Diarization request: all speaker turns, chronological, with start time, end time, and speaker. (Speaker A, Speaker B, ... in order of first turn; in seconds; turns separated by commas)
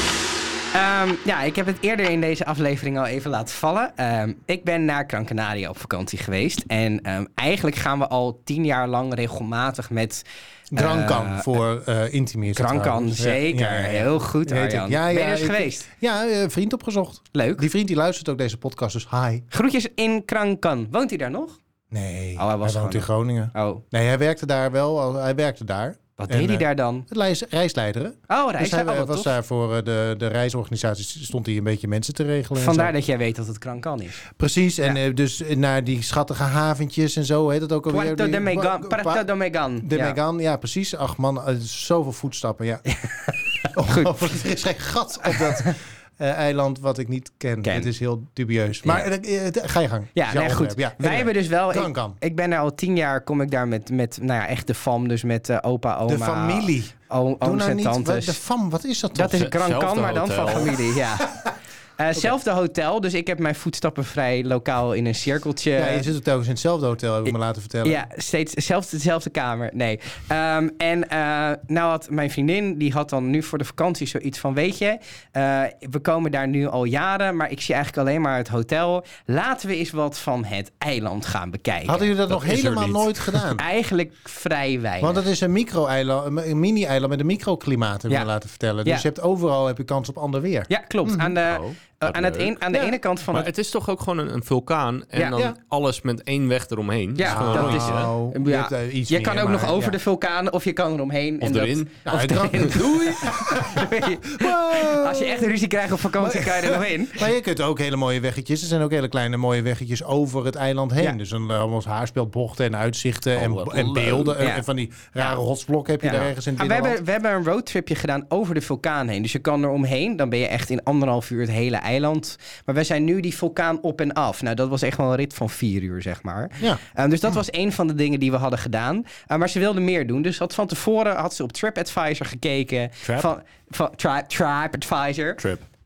Speaker A: 0.7-11.6, Speaker B: 10.7-19.4, Speaker A: 12.5-15.8, Speaker A: 17.3-17.7, Speaker A: 19.5-21.6, Speaker B: 21.9-32.9, Speaker A: 22.4-23.8, Speaker A: 26.2-27.1, Speaker A: 28.3-29.3, Speaker A: 32.5-34.2, Speaker B: 34.4-39.2, Speaker A: 37.9-40.2, Speaker B: 39.8-42.8, Speaker A: 42.9-44.1, Speaker B: 43.7-52.2, Speaker A: 45.2-45.7, Speaker A: 47.6-47.9, Speaker A: 50.1-58.4, Speaker B: 56.1-59.4, Speaker A: 59.1-61.4, Speaker C: 59.2-60.9, Speaker A: 62.0-66.0, Speaker B: 65.8-68.0, Speaker A: 67.8-82.1, Speaker B: 81.8-83.6, Speaker C: 82.3-83.4, Speaker A: 83.5-85.2, Speaker B: 85.0-91.4, Speaker A: 90.7-93.5, Speaker C: 91.4-98.1, Speaker A: 97.2-107.3, Speaker B: 97.2-100.0, Speaker C: 101.4-102.7, Speaker B: 102.0-105.5, Speaker B: 106.1-117.0, Speaker C: 113.3-114.4, Speaker A: 114.4-114.6, Speaker A: 116.0-135.4, Speaker C: 133.0-133.3, Speaker C: 135.4-135.7